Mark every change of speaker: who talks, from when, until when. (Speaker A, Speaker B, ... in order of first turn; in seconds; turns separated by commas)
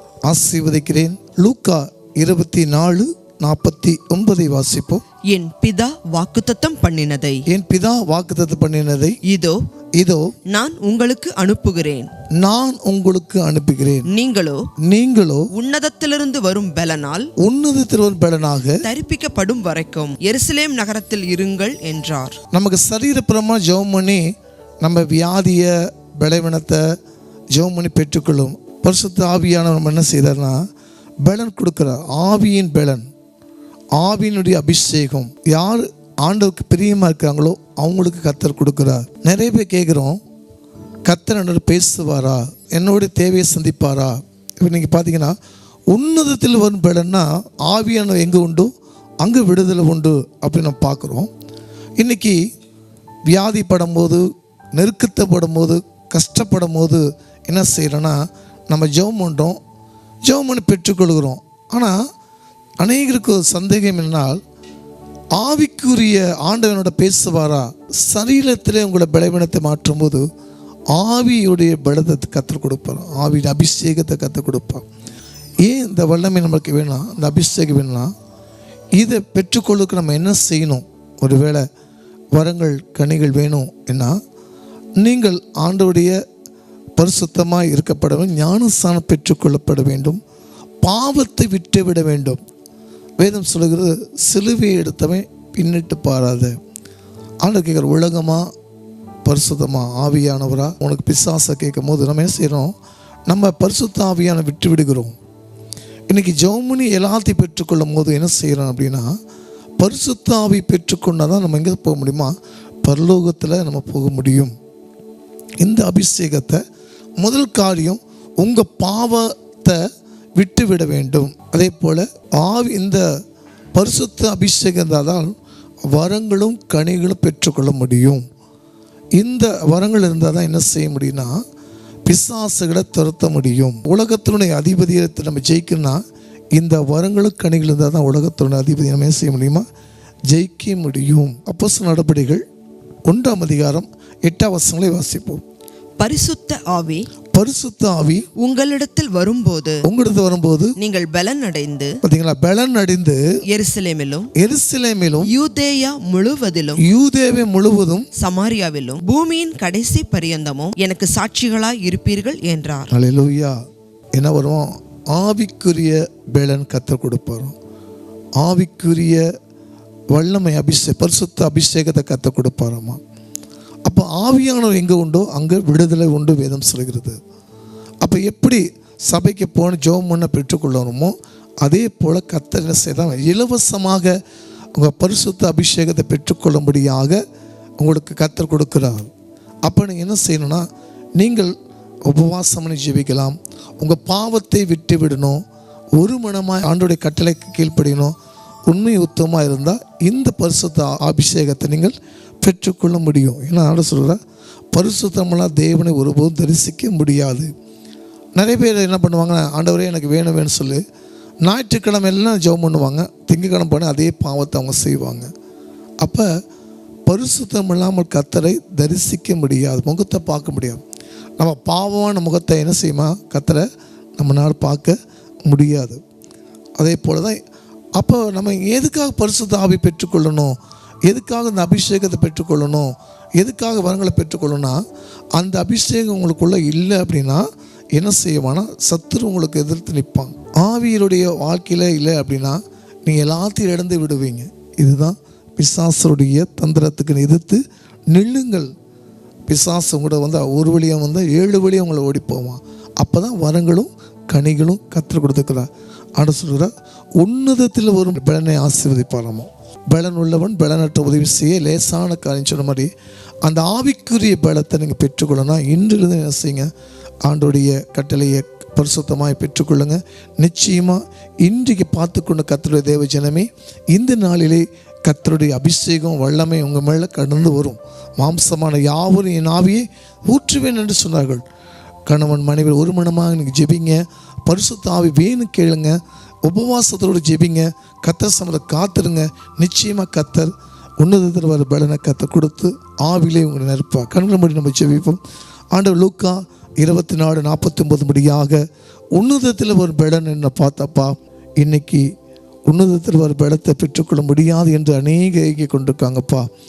Speaker A: 0.3-5.0, Speaker B: 5.3-7.4, Speaker A: 7.5-9.2, Speaker B: 9.2-9.6, Speaker A: 10.0-10.3, Speaker B: 10.4-12.1, Speaker A: 12.4-14.1, Speaker B: 14.1-14.7, Speaker A: 14.8-15.5, Speaker B: 15.5-17.3, Speaker A: 17.4-18.9, Speaker B: 18.8-22.4, Speaker A: 22.5-24.2, Speaker A: 24.8-26.8, Speaker A: 27.5-30.6, Speaker A: 31.2-33.1, Speaker A: 34.0-40.2, Speaker A: 41.1-45.4, Speaker A: 45.9-51.3, Speaker A: 52.0-52.4, Speaker A: 53.3-54.2, Speaker A: 54.7-59.6, Speaker A: 60.2-62.0, Speaker A: 62.8-64.4, Speaker A: 65.4-70.2, Speaker A: 70.9-74.8, Speaker A: 75.6-78.1, Speaker A: 79.0-81.6, Speaker A: 82.3-84.2, Speaker A: 85.0-86.1, Speaker A: 87.0-90.2, Speaker A: 90.8-92.4, Speaker A: 93.2-96.5, Speaker A: 97.4-98.5, Speaker A: 99.2-102.7, Speaker A: 103.3-105.1, Speaker A: 106.1-109.1, Speaker A: 109.8-114.5, Speaker A: 115.6-116.6, Speaker A: 117.2-119.8, Speaker A: 120.4-123.0, Speaker A: 123.8-125.3, Speaker A: 125.9-128.2, Speaker A: 129.2-131.4, Speaker A: 132.1-136.0, Speaker A: 136.6-139.7, Speaker A: 140.3-142.4, Speaker A: 143.1-145.4, Speaker B: 146.0-147.1, Speaker A: 147.3-148.3, Speaker B: 148.3-149.8, Speaker A: 149.8-150.7, Speaker B: 150.8-152.0, Speaker A: 152.0-153.2, Speaker B: 153.5-154.3, Speaker A: 154.3-155.3, Speaker B: 155.2-156.8, Speaker A: 156.8-158.1, Speaker B: 158.2-162.9, Speaker A: 162.9-163.6, Speaker A: 164.2-167.5, Speaker A: 168.4-169.2, Speaker A: 170.1-173.0, Speaker A: 173.8-177.2, Speaker A: 178.0-184.2, Speaker A: 184.7-187.2, Speaker A: 187.8-189.1, Speaker A: 189.6-190.7, Speaker A: 191.2-191.5, Speaker A: 192.1-195.4, Speaker A: 195.9-198.1, Speaker A: 198.7-204.2, Speaker A: 204.7-207.5, Speaker A: 208.3-210.8, Speaker A: 211.4-215.3, Speaker A: 216.0-216.3, Speaker A: 217.1-220.8, Speaker A: 221.4-223.7, Speaker A: 224.2-226.0, Speaker A: 226.8-227.4, Speaker A: 228.0-234.8, Speaker A: 235.4-248.7, Speaker A: 249.5-262.9, Speaker A: 263.4-266.7, Speaker A: 267.2-281.4, Speaker A: 282.1-295.2, Speaker A: 295.7-302.1, Speaker A: 302.6-306.5